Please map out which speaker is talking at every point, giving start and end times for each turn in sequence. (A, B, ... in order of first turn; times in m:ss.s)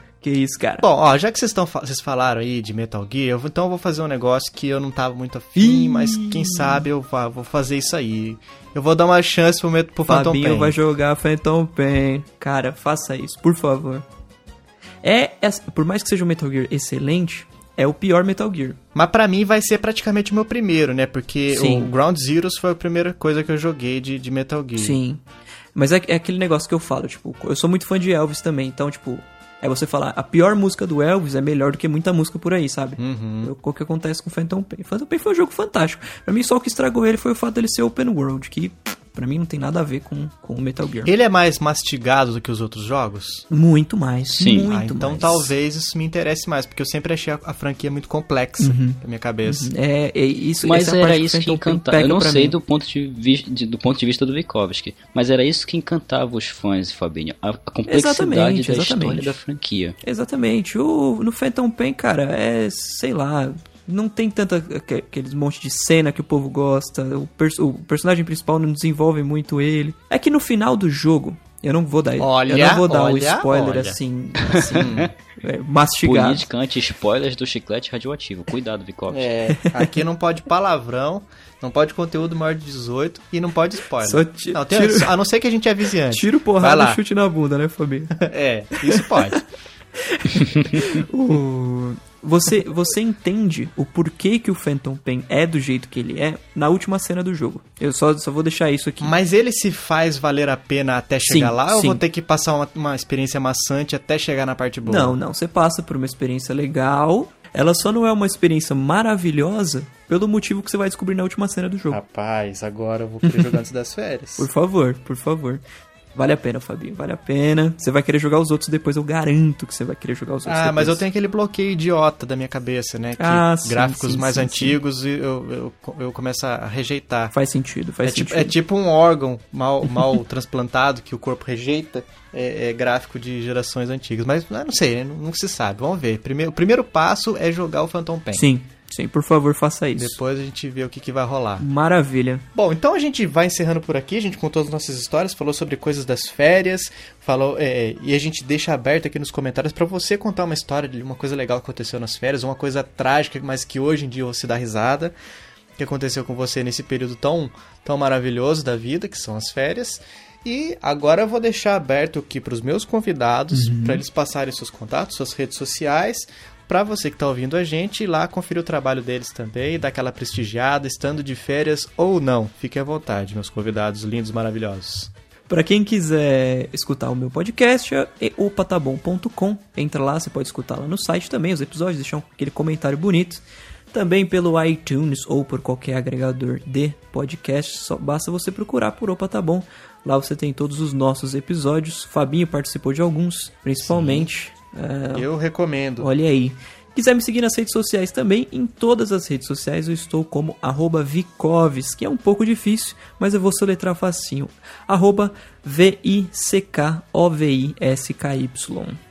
0:00.2-0:00.8 A
0:00.8-0:10.8 B
0:05.6-0:06.8 A
0:10.1-0:14.0 A
0:15.0-0:18.8 A
0:18.9-0:25.0 B
0:21.5-0:21.9 A
0:24.8-0:25.2 A
0:25.7-0:41.1 A
0:33.0-0:33.5 B
0:41.0-0:43.4 B
0:43.5-0:45.5 A
0:44.4-0:44.7 C
0:44.6-0:49.7 B
0:48.6-0:52.5 A
0:50.6-1:00.0 C
0:57.9-0:59.4 A
1:00.0-1:16.5 A
1:12.2-1:14.0 B
1:14.6-1:15.1 C
1:14.7-1:15.1 B
1:16.0-1:19.3 C
1:19.1-1:27.0 B
1:19.6-1:19.8 A
1:24.0-1:25.2 A
1:26.1-1:28.2 A
1:28.1-1:29.4 B
1:28.8-1:29.4 A
1:30.0-1:39.1 A
1:39.0-1:45.2 B
1:41.3-1:42.0 A
1:44.8-1:52.0 A
1:51.9-1:54.5 B
1:54.4-1:55.6 A
1:56.1-2:01.0 A
2:00.4-2:07.3 B
2:03.2-2:04.8 A
2:07.3-2:08.5 A
2:08.0-2:18.4 B
2:18.3-2:20.2 A
2:20.0-2:21.6 B
2:21.6-2:22.4 A
2:22.5-2:35.1 B
2:35.8-2:55.1 B
2:43.5-2:44.0 A
2:55.5-3:15.2 A
3:13.8-3:14.3 B
3:15.1-3:16.1 B
3:16.0-3:29.0 A